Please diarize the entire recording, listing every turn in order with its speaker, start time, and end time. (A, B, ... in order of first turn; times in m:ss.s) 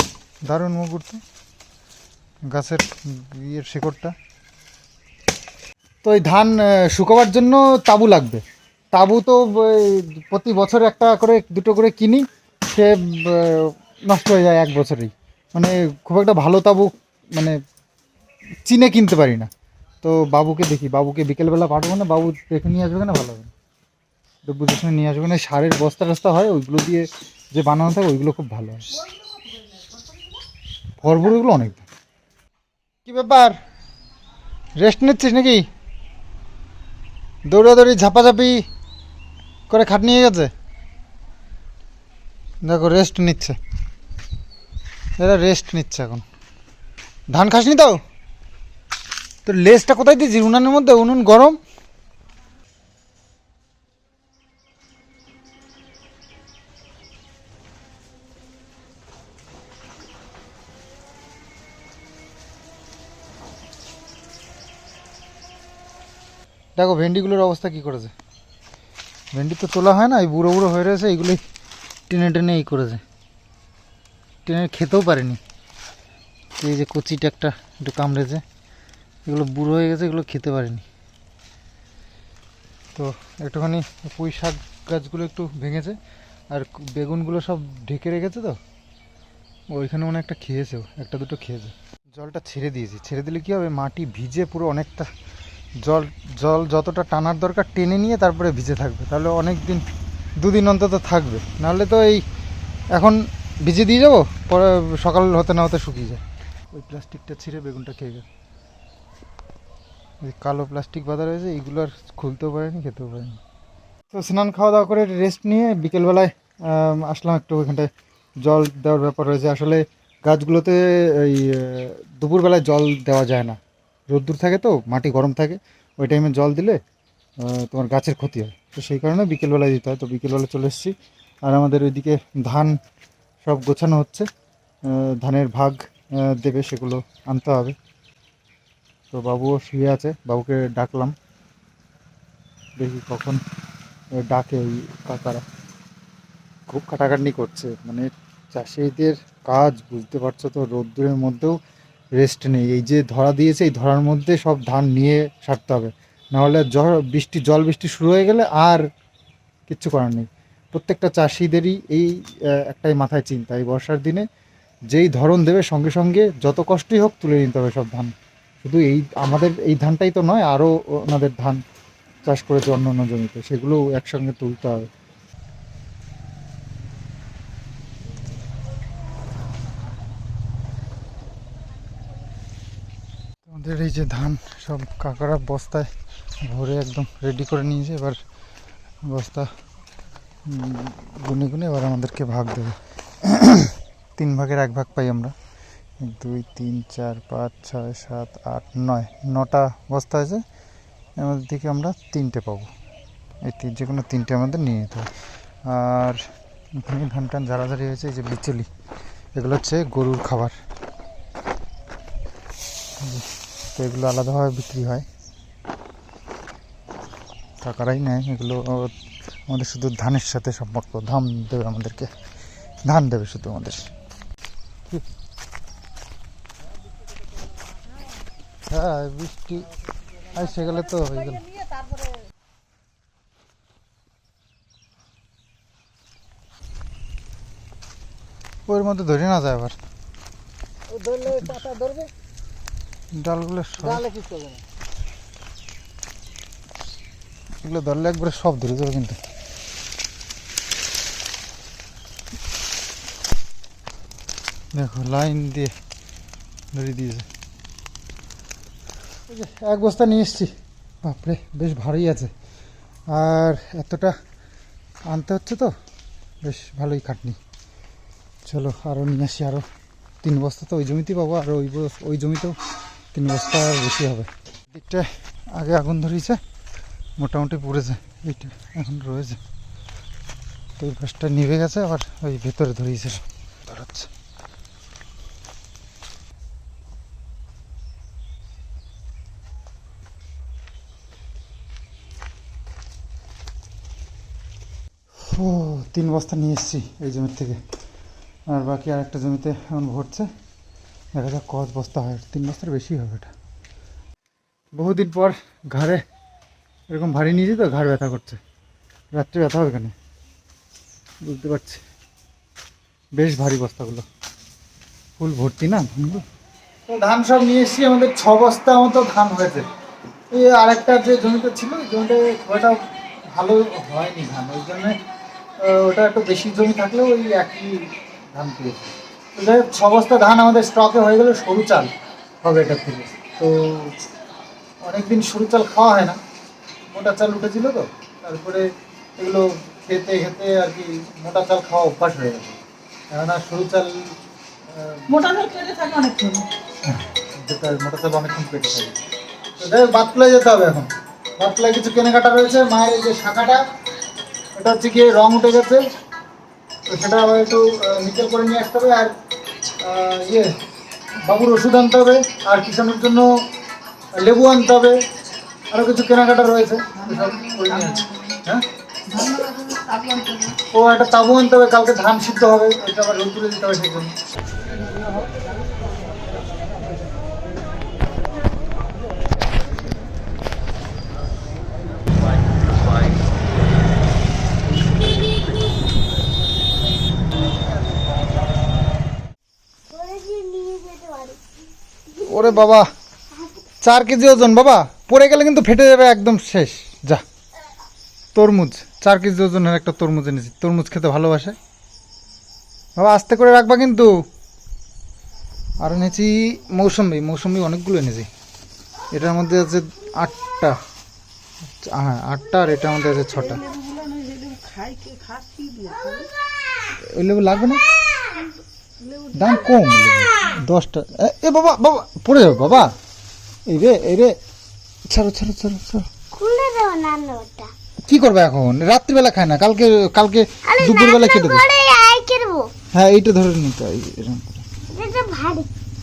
0:00.4-0:01.2 A
0:02.5-0:04.1 A
0:06.0-0:17.6 A
0:18.6-0:19.5 A
0:20.0-0:23.5 A
0:24.4-0:28.8 A
0:28.9-0:30.4 B
0:31.0-0:31.8 A
0:33.0-0:33.6 A
0:34.8-0:35.6 A
0:37.5-0:38.6 A
0:39.7-0:40.5 A
0:42.6-0:43.6 A
0:45.2-0:46.2 A
0:47.3-0:48.0 A
0:49.4-0:51.6 A
1:06.8-1:08.1 A
1:09.3-1:11.4 A
1:12.1-1:13.0 A
1:14.4-1:15.4 A
1:16.6-1:18.4 A
1:19.2-1:20.8 A
1:22.9-1:26.0 A
1:26.5-1:28.6 A
1:29.7-1:35.1 A
1:35.8-1:39.8 A
1:40.4-1:42.2 A
1:42.9-1:48.3 A
1:50.2-1:53.4 A
1:54.1-1:57.9 A
1:58.4-2:03.6 A
2:04.1-2:06.8 A
2:07.4-2:10.9 A
2:11.4-2:12.7 A
2:13.4-2:14.3 A
2:14.8-2:17.8 A
2:19.1-2:21.1 A
2:22.8-2:23.4 A
2:24.1-2:25.4 A
2:26.7-2:31.5 A
2:32.2-2:38.8 A
2:39.7-2:44.2 A
2:44.9-2:51.6 A
2:52.2-2:54.9 A
3:03.5-3:05.9 A
3:06.4-3:08.2 A
3:09.0-3:09.5 A
3:10.4-3:15.3 A
3:16.0-3:20.4 A
3:21.2-3:22.7 A
3:23.4-3:25.1 A
3:25.6-3:28.7 A
3:29.3-3:30.6 A
3:33.0-3:35.0 A
3:37.6-3:38.9 A
3:39.5-3:42.1 A
3:42.8-3:43.9 A
3:47.8-3:48.2 B
3:48.7-3:49.7 A
3:50.2-3:52.2 B
3:50.3-3:51.4 A
3:58.7-3:59.8 A
4:00.9-4:02.1 B
4:01.2-4:01.6 A
4:03.1-4:04.0 A
4:03.8-4:04.6 B
4:07.6-4:09.2 A
4:14.7-4:15.7 A
4:16.7-4:17.3 A
4:19.3-4:22.3 A
4:23.1-4:24.1 A
4:25.1-4:25.7 A
4:26.4-4:27.4 A
4:28.4-4:29.6 A
4:30.2-4:32.5 A
4:33.1-4:36.4 A
4:37.2-4:39.4 A
4:40.8-4:44.1 A
4:55.2-4:57.6 A
4:58.5-5:00.3 A
5:01.1-5:03.3 A
5:04.7-5:06.0 A
5:06.9-5:08.4 A
5:09.1-5:09.9 A
5:11.2-5:11.8 A
5:13.1-5:14.0 A
5:15.2-5:16.2 A
5:16.9-5:19.7 A
5:20.3-5:25.0 A
5:25.6-5:33.9 A
5:34.8-5:36.2 A
5:36.9-5:42.6 A
5:43.1-5:44.1 A
5:44.7-5:45.0 A
5:45.1-5:46.5 B
5:46.8-5:49.0 A
5:49.6-5:53.6 A
5:54.6-5:55.8 A
5:56.9-5:59.1 A
5:59.8-6:00.5 A
6:01.2-6:03.3 A
6:04.1-6:05.0 A
6:05.7-6:08.6 A
6:07.0-6:08.4 B
6:09.1-6:10.6 B
6:10.7-6:14.1 A
6:14.6-6:20.0 B
6:27.4-6:28.4 B
6:29.9-6:31.4 C
6:32.1-6:32.6 C
6:32.2-6:32.9 A
6:33.8-6:37.2 A
6:38.3-6:41.6 A
6:43.0-6:44.1 A
6:45.8-6:48.3 A
6:49.1-6:50.8 A
6:51.8-6:53.6 A
6:53.3-6:56.3 B
6:56.2-6:56.9 C
6:57.0-6:57.8 A
6:57.8-6:58.4 C
6:59.0-6:59.8 B
6:59.3-7:02.9 A
7:03.7-7:04.4 A
7:05.1-7:06.1 A
7:06.3-7:07.7 C
7:08.1-7:11.6 A
7:10.6-7:12.7 C
7:12.9-7:14.6 A
7:14.9-7:15.7 C